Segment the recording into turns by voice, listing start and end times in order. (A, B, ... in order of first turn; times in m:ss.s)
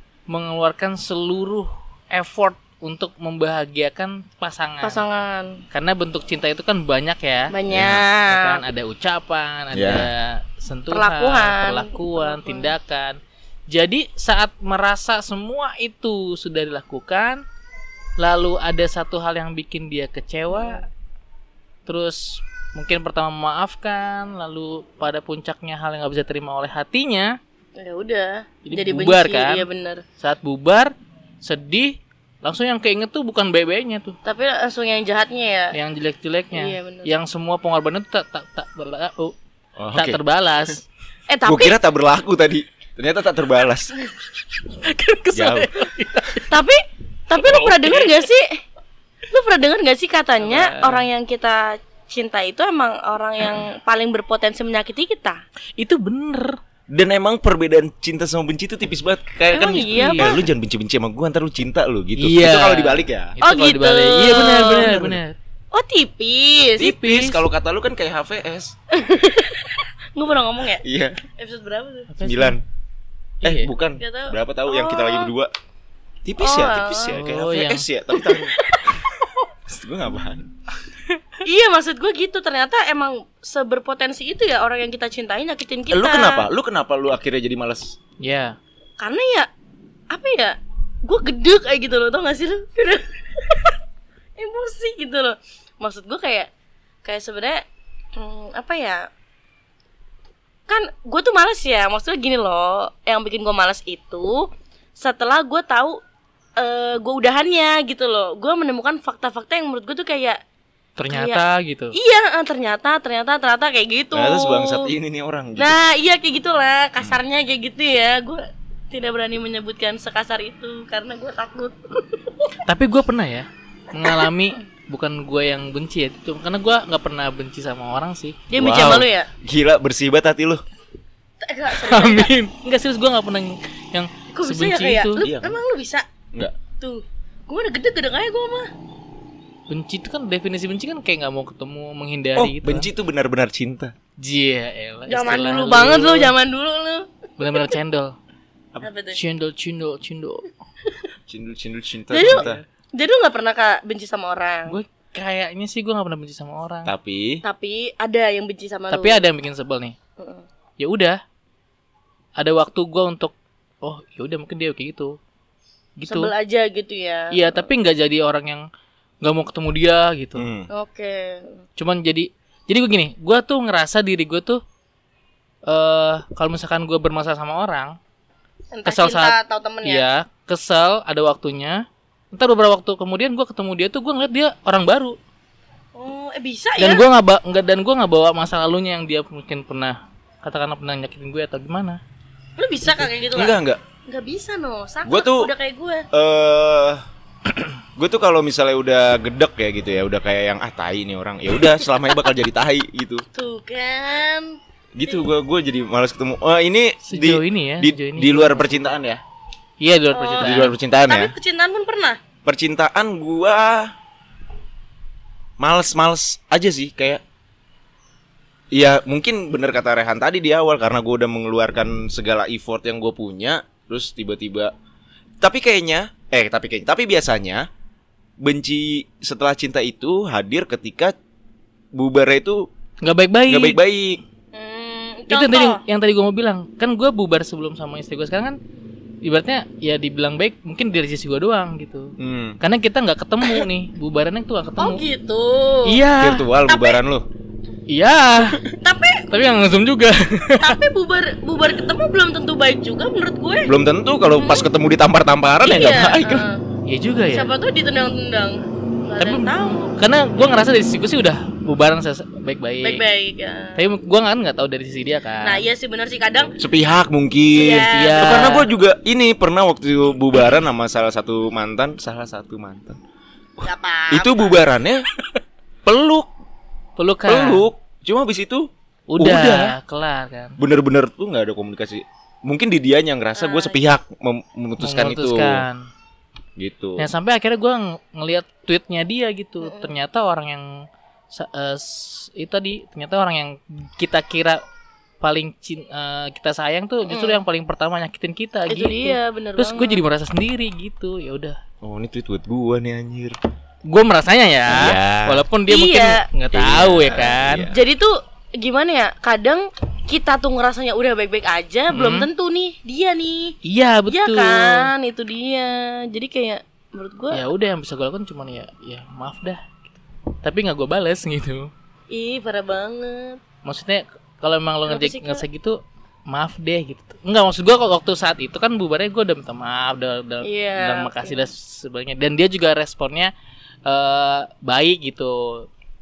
0:00.3-0:05.0 A
0:04.8-0:05.6 B
0:05.7-0:07.5 A
0:07.5-0:08.6 B
0:07.7-0:08.0 C
0:08.3-0:13.2 A
0:09.7-0:10.1 C
0:10.9-0:12.7 B
0:13.7-0:17.4 A
0:18.2-0:20.8 A
0:20.5-0:20.8 B
0:21.8-0:27.4 A
0:27.8-0:30.0 B
0:28.6-0:29.7 A
0:30.2-0:34.2 A
0:34.2-0:35.8 B
0:35.7-0:39.3 A
0:36.5-0:37.1 B
0:39.8-0:40.2 C
0:39.9-0:40.8 A
0:41.3-0:41.8 B
0:41.4-0:43.9 C
0:44.7-0:46.5 A
0:45.3-0:45.8 C
0:46.5-0:48.6 B
0:47.3-0:48.2 A
0:49.3-0:55.4 B
0:50.4-0:51.1 A
0:55.8-0:56.6 A
0:56.9-1:03.4 C
0:59.5-1:00.4 B
0:59.9-1:00.3 A
1:02.2-1:05.4 A
1:03.4-1:05.0 B
1:04.5-1:05.2 C
1:05.7-1:06.9 B
1:06.8-1:07.4 A
1:06.8-1:08.7 C
1:08.9-1:10.8 B
1:10.8-1:11.2 C
1:11.4-1:12.1 B
1:12.1-1:12.6 A
1:12.2-1:12.6 C
1:13.4-1:13.7 A
1:13.4-1:15.5 C
1:14.0-1:15.3 B
1:16.2-1:18.6 C
1:16.4-1:17.2 B
1:17.1-1:17.8 A
1:18.2-1:18.9 B
1:19.6-1:20.5 C
1:21.4-1:26.5 B
1:25.9-1:28.0 C
1:28.2-1:28.6 A
1:29.0-1:29.5 B
1:30.1-1:33.8 B
1:34.4-1:36.5 B
1:37.0-1:37.6 B
1:38.2-1:39.1 B
1:40.7-1:46.0 B
1:46.6-1:50.4 B
1:51.0-1:51.9 A
1:51.1-1:51.4 B
1:51.9-1:54.9 B
1:54.1-1:55.8 C
1:55.6-2:02.5 B
2:02.6-2:08.4 A
2:08.5-2:09.3 B
2:08.5-2:10.6 C
2:11.4-2:12.3 B
2:11.7-2:15.2 A
2:14.3-2:16.0 B
2:15.2-2:15.6 C
2:16.8-2:18.7 B
2:19.7-2:22.9 A
2:22.4-2:23.9 C
2:24.2-2:26.3 A
2:25.1-2:27.1 B
2:27.4-2:28.2 A
2:28.8-2:29.2 B
2:29.1-2:30.5 A
2:31.3-2:32.6 C
2:32.1-2:34.8 B
2:32.2-2:32.6 A
2:34.7-2:36.9 A
2:36.8-2:37.4 C
2:37.4-2:39.3 B
2:38.9-2:40.0 A
2:40.2-2:40.4 B
2:40.8-2:41.2 A
2:42.4-2:45.2 A
2:46.0-2:46.3 A
2:46.1-2:47.7 B
2:47.3-2:48.6 A
2:49.2-2:50.4 A
2:50.4-2:50.7 C
2:50.7-2:51.6 B
2:51.8-2:54.6 A
2:55.6-2:58.0 A
2:58.7-3:00.0 B
2:58.8-3:05.2 A
3:05.9-3:07.0 B
3:06.8-3:12.0 A
3:12.6-3:13.6 B
3:12.9-3:13.8 C
3:14.1-3:16.0 B
3:15.0-3:15.5 C
3:16.1-3:17.0 C
3:18.0-3:23.2 C
3:23.3-3:24.6 B
3:25.0-3:29.2 C
3:27.0-3:28.9 A
3:29.8-3:30.7 A
3:30.1-3:32.2 B
3:30.4-3:31.3 C
3:32.4-3:33.9 C
3:35.6-3:37.2 C
3:38.7-3:44.7 C
3:45.4-3:47.7 C
3:48.4-3:51.1 C
3:51.9-3:52.6 C
3:53.0-3:53.8 A
3:53.5-3:54.2 C
3:54.5-3:55.8 B
3:55.3-3:58.6 A
3:59.2-4:05.0 A
4:02.2-4:02.6 C
4:04.8-4:06.0 B
4:05.8-4:06.4 A
4:06.2-4:07.2 C
4:06.7-4:07.0 B
4:07.9-4:08.6 A
4:08.8-4:09.3 B
4:09.3-4:10.8 A
4:10.6-4:13.7 B
4:13.6-4:16.5 C
4:14.3-4:14.7 B
4:15.6-4:16.6 B
4:16.8-4:17.5 A
4:17.3-4:20.0 B
4:19.2-4:23.0 A
4:22.8-4:23.8 B
4:23.8-4:25.6 A
4:25.4-4:26.5 B
4:26.6-4:33.0 C
4:27.5-4:28.6 B
4:27.8-4:28.7 A
4:33.6-4:35.0 C
4:33.6-4:34.6 B
4:35.8-4:36.3 C
4:37.0-4:37.6 A
4:37.3-4:39.7 C
4:39.1-4:40.6 A
4:40.6-4:45.6 C
4:43.4-4:43.8 B
4:44.8-4:45.8 A
4:46.6-4:47.1 C
4:47.0-4:54.6 A
4:49.6-4:49.9 B
4:55.2-5:01.6 A
4:57.1-4:57.4 B
4:58.7-5:00.0 B
5:01.8-5:03.4 C
5:03.9-5:07.7 A
5:04.7-5:05.4 C
5:05.7-5:06.2 B
5:06.5-5:07.8 C
5:07.7-5:13.6 B
5:11.9-5:12.3 A
5:13.6-5:14.9 A
5:14.1-5:17.4 B
5:17.3-5:19.7 A
5:20.4-5:21.7 A
5:22.1-5:23.4 B
5:23.6-5:33.3 A
5:24.9-5:25.4 B
5:30.4-5:31.4 B
5:33.9-5:35.7 A